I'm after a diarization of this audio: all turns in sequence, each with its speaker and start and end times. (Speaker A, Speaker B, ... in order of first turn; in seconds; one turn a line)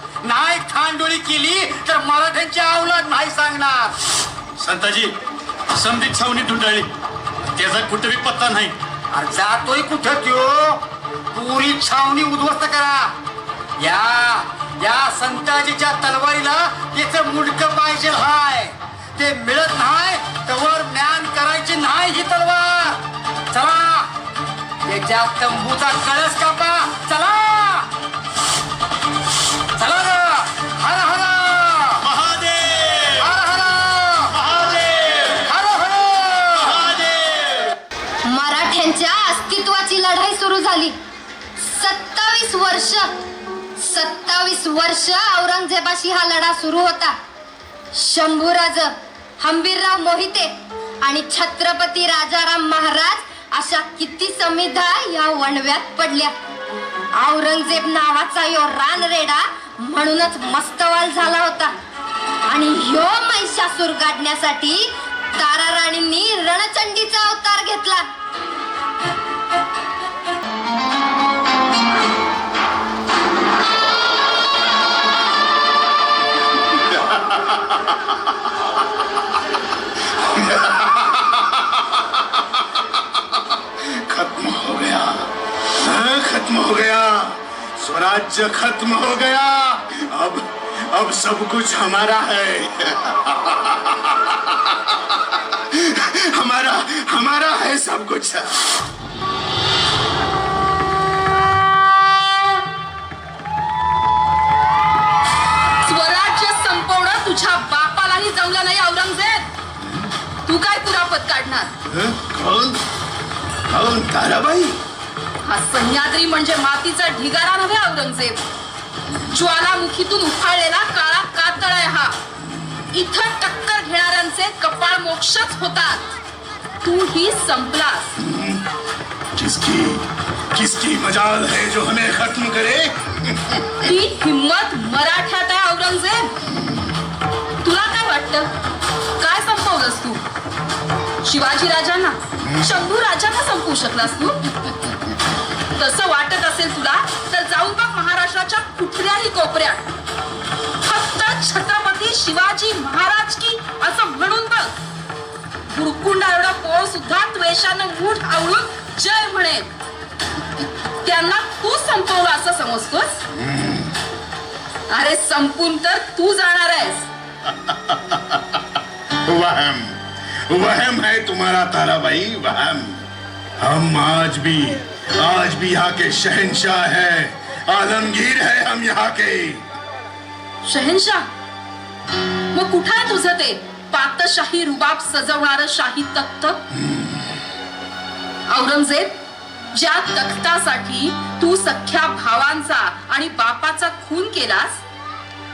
Speaker A: 0.2-3.9
Speaker B: 4.6-5.1
Speaker B: 5.9-6.9
Speaker A: 9.1-10.8
Speaker A: 11.3-13.1
Speaker A: 13.8-23.0
Speaker A: 23.5-24.1
Speaker A: 24.9-27.9
Speaker A: 29.8-32.0
Speaker B: 32.0-33.3
Speaker A: 33.2-34.4
Speaker B: 34.4-35.4
Speaker A: 35.4-36.9
Speaker B: 36.6-37.7
Speaker C: 38.3-41.0
Speaker C: 41.6-43.1
Speaker C: 43.8-47.2
Speaker C: 47.9-50.5
Speaker C: 51.0-56.3
Speaker C: 57.1-61.7
Speaker C: 62.5-68.0
Speaker D: 76.9-77.9
Speaker D: 80.2-82.6
Speaker D: 83.9-98.6
Speaker E: 105.8-109.5
Speaker E: 110.5-111.7
Speaker D: 111.9-112.8
Speaker D: 113.7-114.8
Speaker E: 115.4-118.4
Speaker E: 119.3-122.2
Speaker E: 122.9-126.0
Speaker E: 126.8-128.2
Speaker D: 128.2-128.6
Speaker D: 129.3-133.7
Speaker E: 133.8-136.3
Speaker D: 136.5-136.9
Speaker E: 137.6-138.5
Speaker E: 139.2-140.2
Speaker E: 141.2-144.4
Speaker E: 145.7-149.8
Speaker E: 150.8-154.7
Speaker E: 155.7-159.7
Speaker E: 161.0-163.2
Speaker D: 163.3-163.9
Speaker E: 164.9-167.1
Speaker D: 167.6-168.6
Speaker D: 169.2-173.0
Speaker D: 173.6-179.6
Speaker E: 180.6-181.2
Speaker E: 182.5-186.6
Speaker D: 186.7-187.3
Speaker E: 188.5-189.1
Speaker E: 189.7-194.8